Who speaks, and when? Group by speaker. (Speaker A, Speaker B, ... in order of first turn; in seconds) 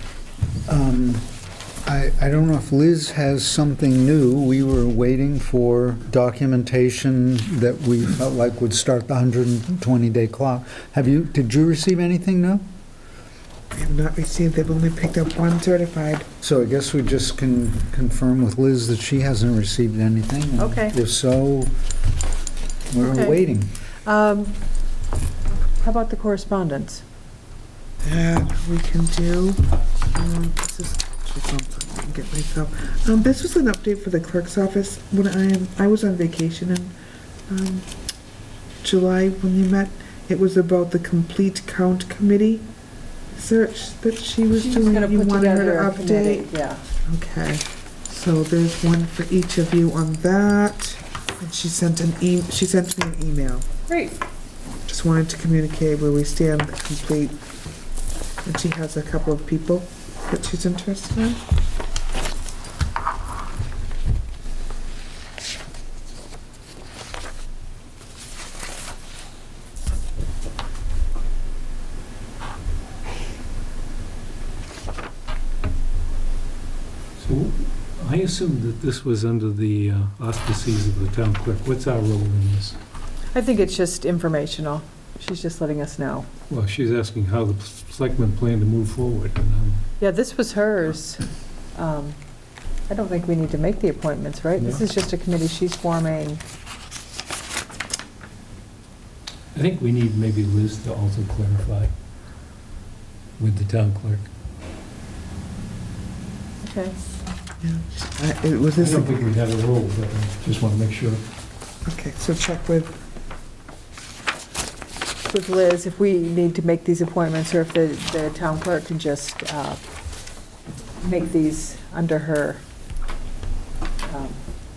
Speaker A: 0.7-1.3, 1.9-12.7, 16.4-21.7, 22.9-23.7
Speaker B: 13.7-16.3, 28.0-36.9, 37.5-37.9, 38.8-42.7, 43.4-46.5, 47.1-53.7, 54.9-57.4, 58.4-61.4, 107.6-109.1, 111.9-113.0
Speaker C: 20.6-21.0, 23.0-23.4, 24.1-24.6, 25.8-27.0, 44.5-46.8, 53.9-54.2, 83.3-86.3, 90.0-91.2, 91.7-92.2, 92.9-96.4, 106.6-107.0, 115.3-119.8, 121.0-122.6, 124.0-124.4
Speaker D: 77.2-82.8, 86.5-89.8, 94.6-94.8, 99.5-101.9, 103.4-104.3, 108.8-111.2